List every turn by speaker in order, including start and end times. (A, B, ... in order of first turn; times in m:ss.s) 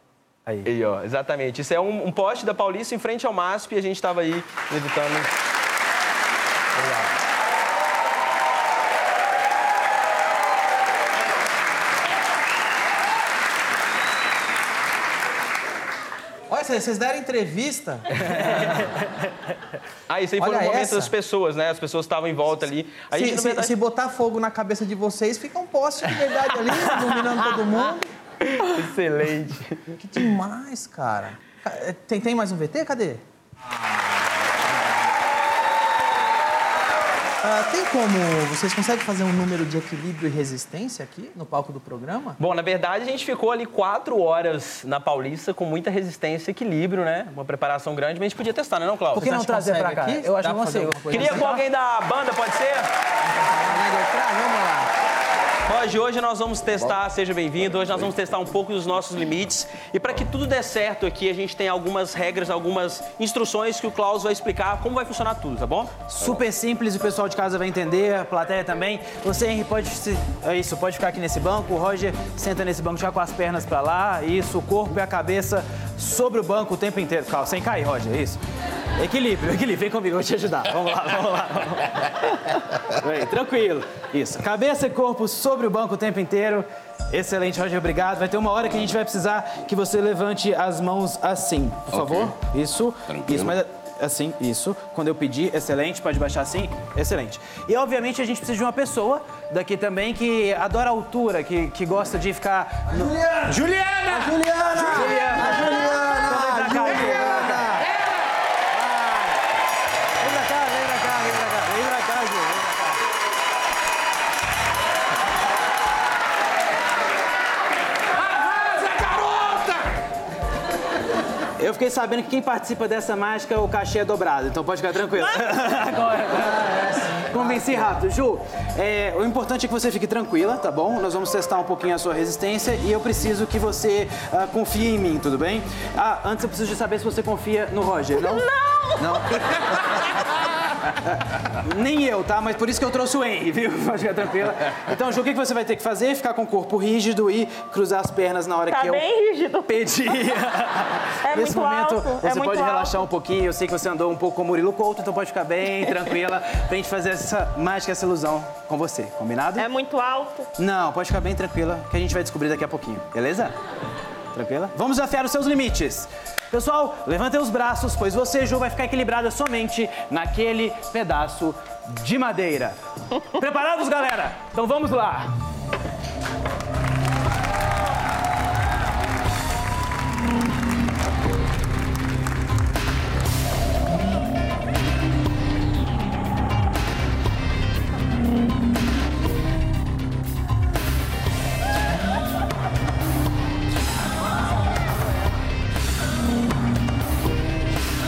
0:00.6-0:05.3 A
0:16.5-0:18.8 B
0:20.1-0:23.7 A
0:20.4-0:21.1 B
0:23.1-0:28.1 B
0:28.4-0:29.9 A
0:30.0-0:33.2 B
0:37.4-0:42.4 B
0:42.4-0:49.3 A
0:49.1-0:51.6 B
0:49.1-0:51.6 C
0:51.1-0:52.9 A
0:53.2-0:54.9 B
0:55.7-1:06.0 A
1:06.1-1:18.4 C
1:19.0-1:44.2 C
1:42.9-1:43.5 B
1:43.6-1:44.3 D
1:44.1-1:47.9 B
1:44.7-1:47.8 C
1:48.7-1:49.4 C
1:50.2-1:53.0 C
1:58.2-1:59.8 D
2:01.6-2:19.4 C
2:06.3-2:08.0 B
2:18.3-2:19.2 E
2:21.0-2:29.1 C
2:28.7-2:30.1 E
2:29.6-2:39.7 C
2:31.2-2:33.0 E
2:39.6-2:40.5 E
2:40.6-2:43.5 C
2:44.3-2:55.3 C